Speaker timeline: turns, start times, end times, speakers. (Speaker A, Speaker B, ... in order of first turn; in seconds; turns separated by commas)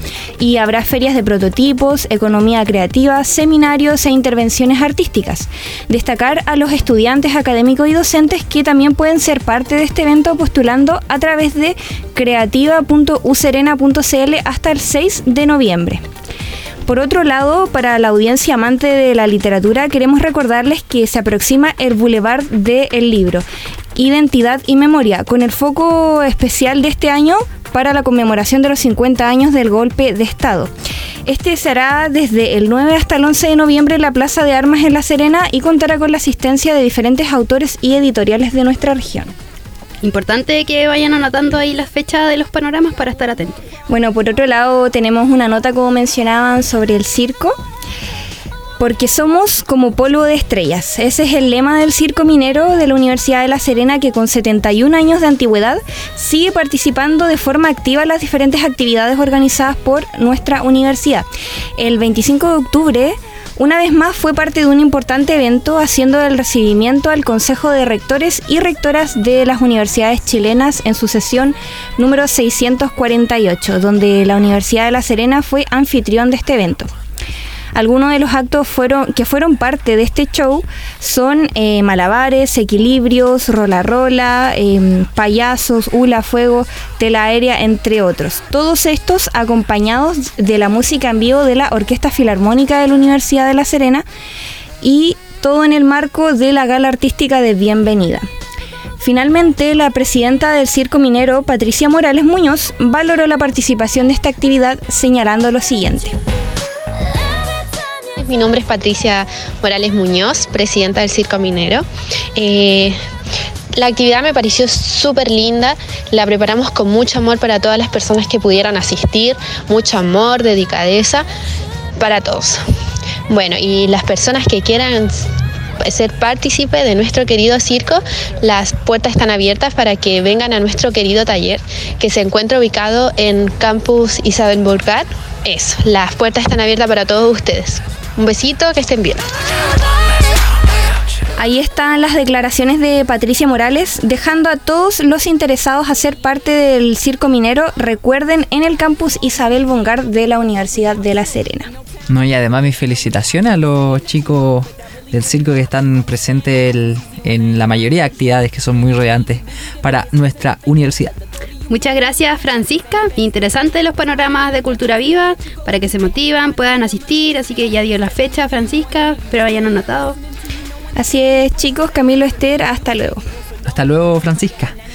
Speaker A: 0.4-16.0, Speaker A: 16.9-23.4, Speaker A: 23.9-30.7, Speaker A: 31.2-39.3, Speaker B: 40.0-43.5, Speaker A: 43.9-47.5, Speaker A: 48.8-76.9, Speaker A: 77.7-94.0, Speaker A: 94.8-98.3, Speaker A: 99.0-106.2, Speaker C: 108.2-111.8, Speaker C: 112.3-113.0, Speaker C: 113.7-121.2, Speaker C: 122.0-122.6, Speaker C: 123.3-125.3, Speaker C: 125.8-139.2, Speaker A: 141.4-151.7, Speaker D: 152.1-161.1, Speaker B: 161.7-170.2, Speaker A: 170.9-173.2, Speaker D: 173.6-174.7